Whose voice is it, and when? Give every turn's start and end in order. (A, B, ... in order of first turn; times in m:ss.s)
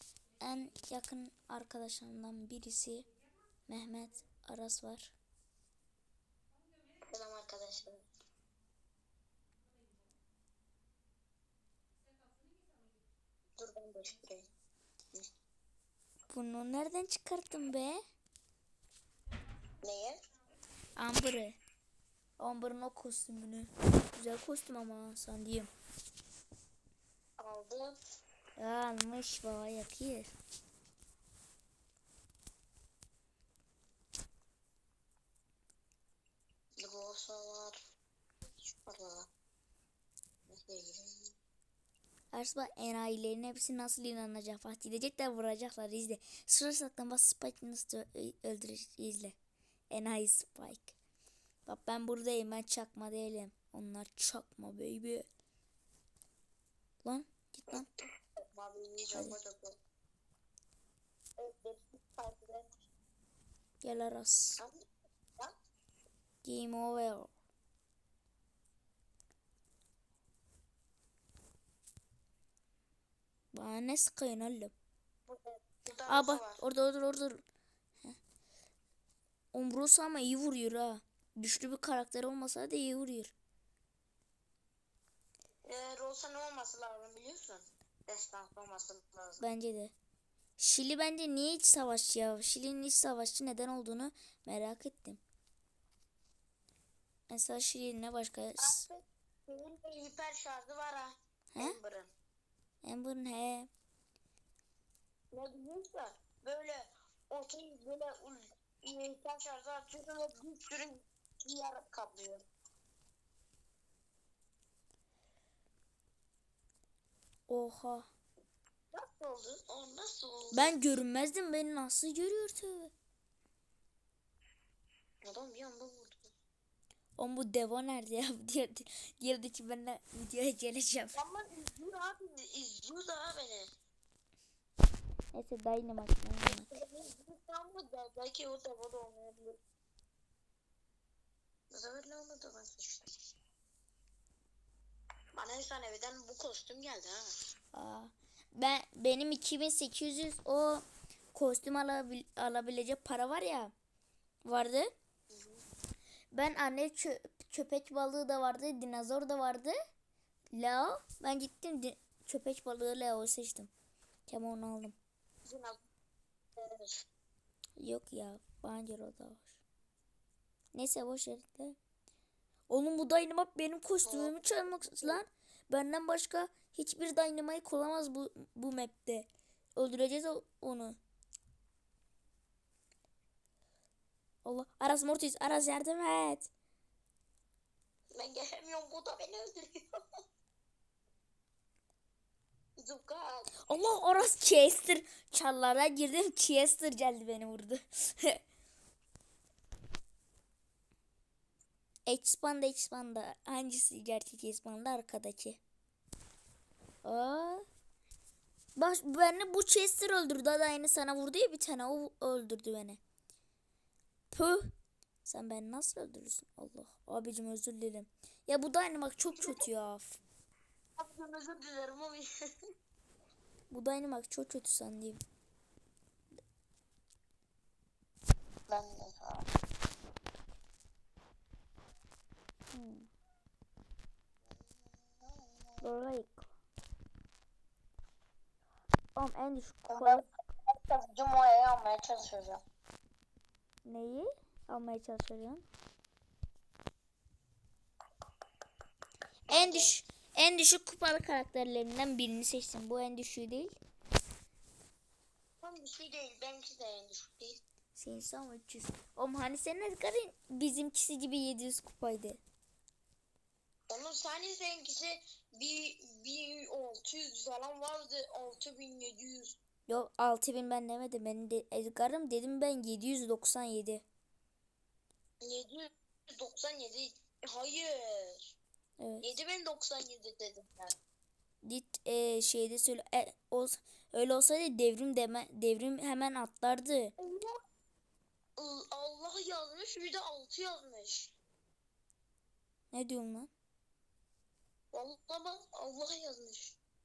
0:00.4-0:03.1 A
0:03.7-0:05.1 A
0:07.1-0:08.0 B
0:13.6-0:14.5 B
0:16.3-0:18.0 A
0:19.8-0:20.2 B
0:21.0-0:21.6 A
0:22.4-0:25.7 A
0:27.4-0:28.0 B
0:28.6-0:30.3 A
0:36.8-0:37.8 B
0:38.6-0:39.3 B
0:40.5-0:41.3 B
0:42.3-0:49.4 A
0:49.9-0:51.0 A
0:51.7-0:55.3 A
0:57.0-0:57.9 A
0:58.5-0:59.7 B
1:01.4-1:02.7 B
1:03.8-1:04.6 A
1:06.4-1:07.3 A
1:13.5-1:14.7 A
1:15.3-1:16.6 B
1:16.1-1:17.4 A
1:19.5-1:23.3 A
1:25.6-1:29.4 B
1:29.4-1:29.9 A
1:30.6-1:35.2 A
1:37.3-1:38.8 A
1:38.6-1:42.1 B
1:41.5-1:41.8 A
1:42.8-1:43.7 A
1:45.3-1:52.4 B
1:57.5-1:58.1 A
1:58.9-2:00.8 B
2:00.5-2:02.9 A
2:05.2-2:06.3 B
2:07.2-2:11.1 A
2:11.2-2:13.7 B
2:15.3-2:16.8 A
2:16.5-2:19.6 B
2:21.7-2:23.1 B
2:25.3-2:27.2 B
2:27.7-2:33.7 A
2:34.4-2:34.9 A
2:35.3-2:35.6 B
2:36.3-2:39.8 A
2:40.5-2:43.7 A
2:44.3-2:45.0 A
2:45.4-2:45.8 B
2:46.6-2:47.0 B
2:47.8-2:49.6 A
2:50.7-2:51.8 A
2:52.7-3:01.0 A
2:54.0-2:55.2 B
3:04.4-3:06.5 A
3:08.2-3:09.8 B
3:12.8-3:13.5 B
3:13.6-3:18.4 A
3:22.1-3:25.6 A
3:27.0-3:27.6 A
3:28.8-3:33.0 A
3:34.3-3:34.7 A
3:35.2-3:40.2 A
3:41.0-3:42.3 B
3:43.7-3:45.2 A
3:48.7-3:49.5 B
3:52.7-3:53.1 A
3:55.2-3:55.9 B
3:55.8-3:56.5 A
3:59.2-4:00.2 A
3:59.9-4:02.6 B
4:03.8-4:05.6 A
4:09.5-4:10.0 B
4:09.5-4:13.8 A
4:15.6-4:17.6 B
4:17.9-4:22.4 A
4:23.9-4:29.6 B
4:29.9-4:34.0 A
4:35.4-4:38.6 B
4:39.0-4:39.4 A
4:39.2-4:40.9 B
4:41.6-4:47.1 A
4:47.2-4:47.5 B
4:48.6-4:51.3 B
4:52.9-4:53.5 A
4:54.9-4:56.8 B